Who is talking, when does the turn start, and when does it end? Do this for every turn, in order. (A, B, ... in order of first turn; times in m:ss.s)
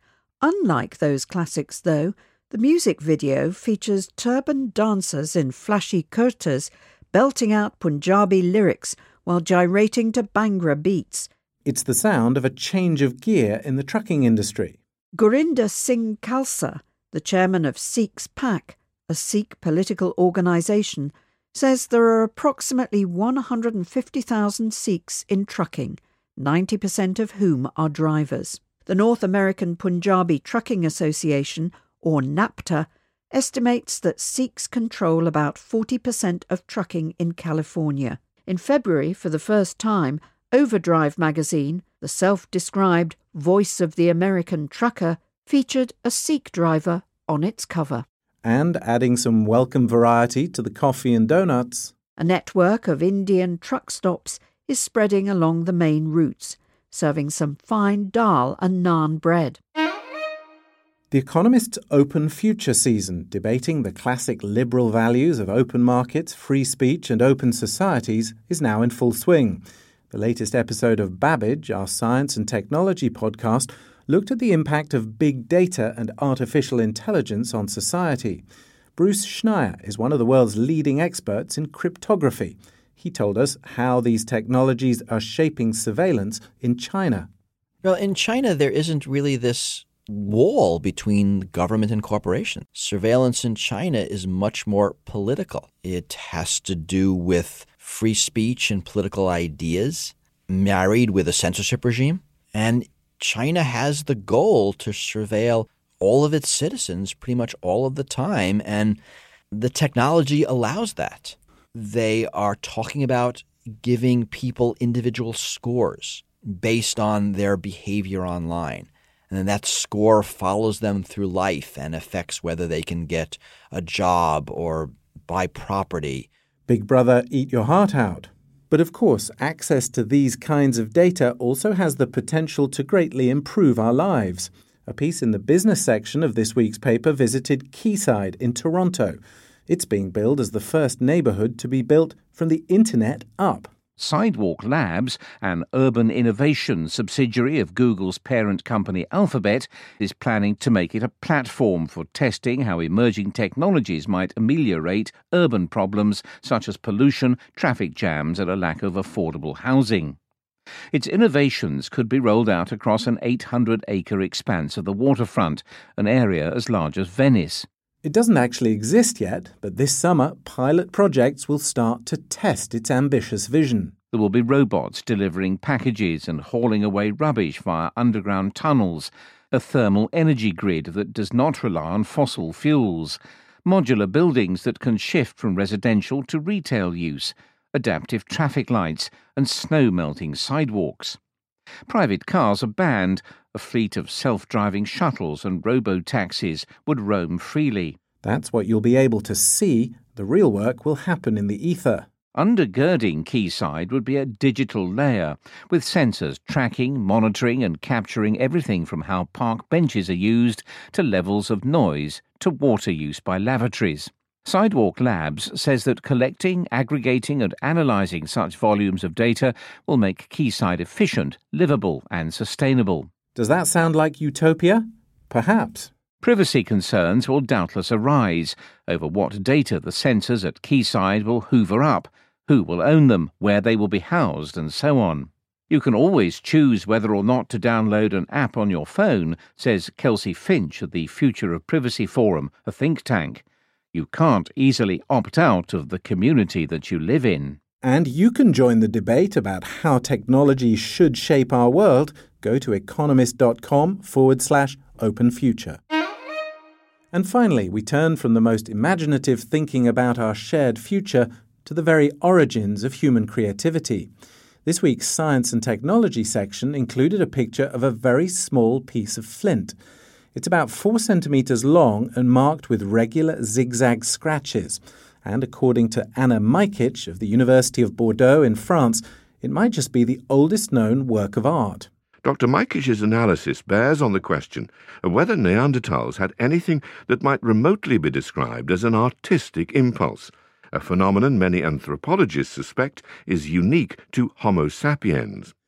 0:00.4-0:11.3 A
0:11.6-0:14.8 B
0:15.1-0:48.0 A
0:48.4-0:51.9 B
0:52.2-0:59.6 A
1:01.1-1:18.4 B
1:19.0-1:27.3 B
1:27.8-1:49.0 C
1:49.5-2:06.3 C
2:06.7-2:23.7 B
2:24.0-2:40.2 D
2:40.9-2:47.6 D
2:48.0-2:53.9 B
2:54.1-3:11.2 D
3:11.9-3:18.0 D
3:18.2-3:22.1 B
3:22.3-3:43.1 D
3:43.3-3:45.9 B
3:46.2-4:07.6 D
4:07.8-4:15.8 B
4:17.1-4:24.1 B
4:24.6-4:29.8 B
4:30.3-4:41.9 B
4:42.2-4:55.5 E